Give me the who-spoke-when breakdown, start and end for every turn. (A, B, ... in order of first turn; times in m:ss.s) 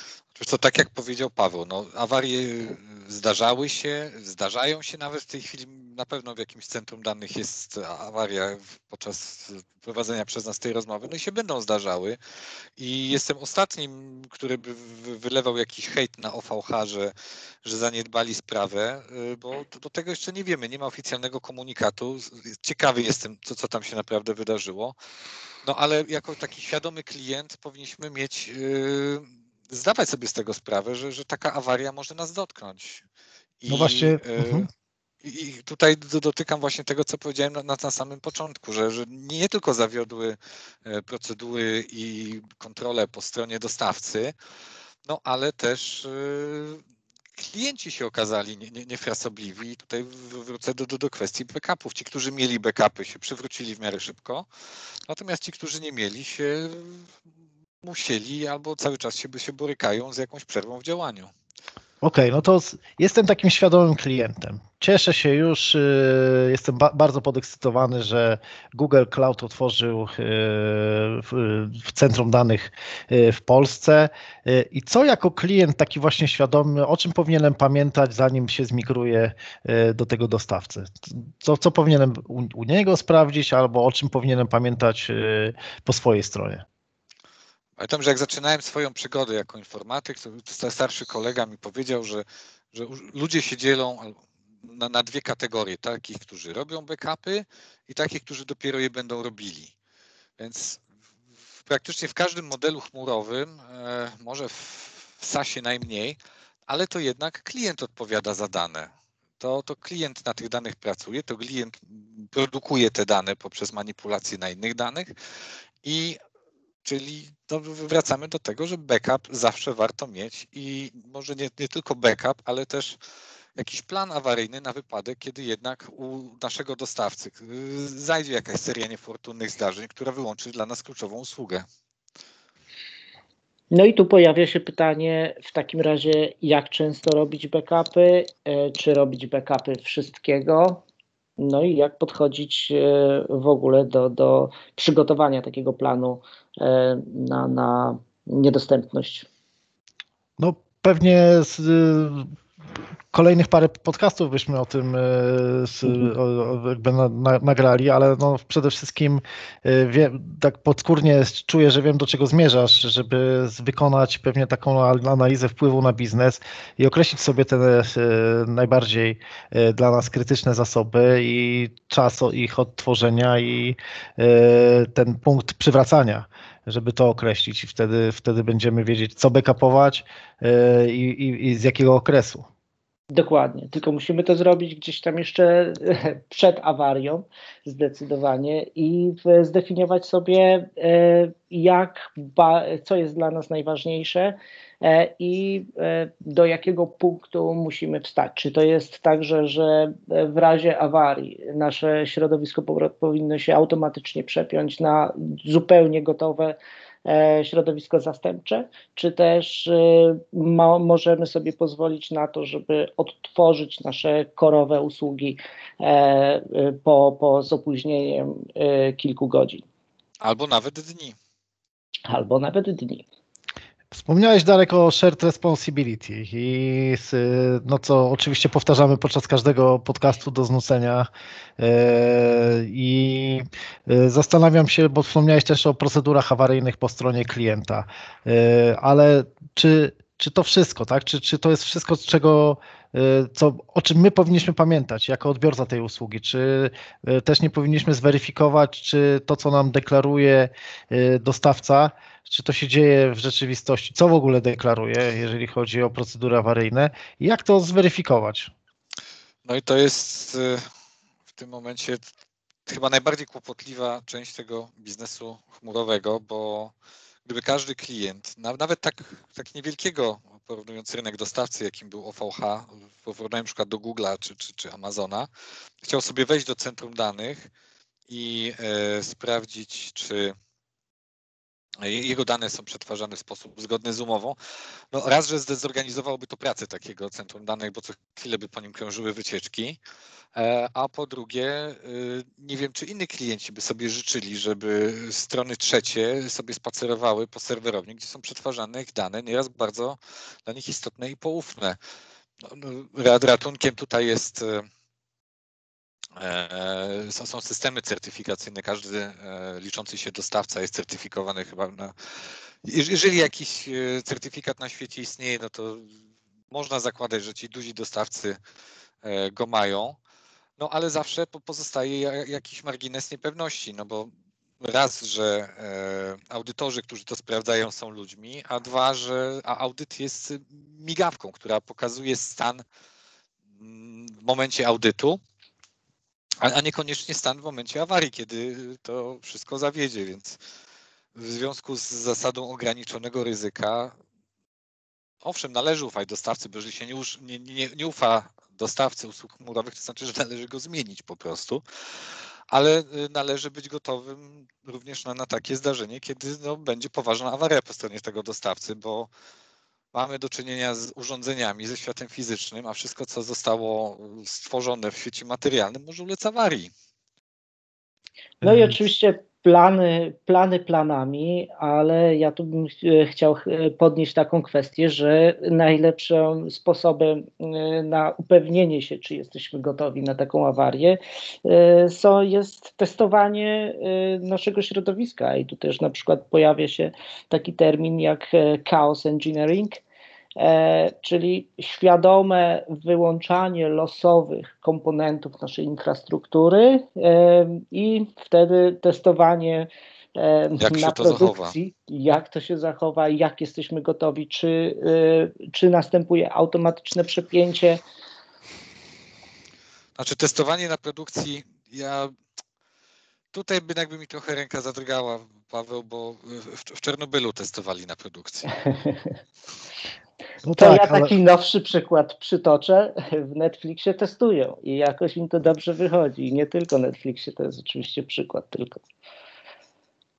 0:00.4-0:12.2 A
0:12.8-0:17.1 A
0:17.6-0:25.0 A
0:25.6-0:33.0 A
0:33.6-0:34.7 A
0:33.7-0:34.7 B
0:35.2-0:44.3 A
0:45.1-0:46.8 A
0:47.4-0:54.5 A
0:55.1-0:57.1 A
0:57.8-1:01.3 A
1:02.0-1:26.6 B
1:27.8-1:39.7 A
1:40.4-1:40.8 A
1:41.7-1:55.1 A
1:55.8-1:56.2 A
1:56.8-2:03.0 A
2:03.6-2:11.7 A
2:13.7-2:20.8 C
2:21.4-2:29.3 C
2:30.4-2:32.3 B
2:33.1-3:02.5 B
3:03.1-3:39.6 C
3:40.2-3:41.2 A
3:42.1-3:43.0 C
3:43.9-3:51.1 B
3:51.6-4:18.5 B
4:19.4-4:20.7 A
4:21.3-4:22.0 A
4:22.7-4:26.7 A
4:27.2-4:35.3 A
4:35.8-4:37.5 A
4:38.1-4:40.4 A
4:41.8-4:44.4 A
4:44.9-4:49.8 A
4:50.4-5:01.8 A
5:02.4-5:04.7 A
5:06.2-5:11.9 A
5:12.6-5:15.9 A
5:16.5-5:18.4 A
5:19.0-5:20.0 A
5:20.6-5:32.6 A
5:33.6-5:35.2 A
5:36.4-5:40.4 A
5:41.2-5:43.9 A
5:45.2-5:51.6 A
5:52.5-5:59.1 A
5:59.9-6:06.7 A
6:08.4-6:08.8 B
6:08.4-6:29.8 C
6:30.4-6:47.8 C
6:40.6-6:41.5 A
6:50.0-6:52.1 A
6:53.3-6:58.5 A
6:58.7-6:59.0 C
7:00.4-7:01.1 B
7:00.6-7:08.8 C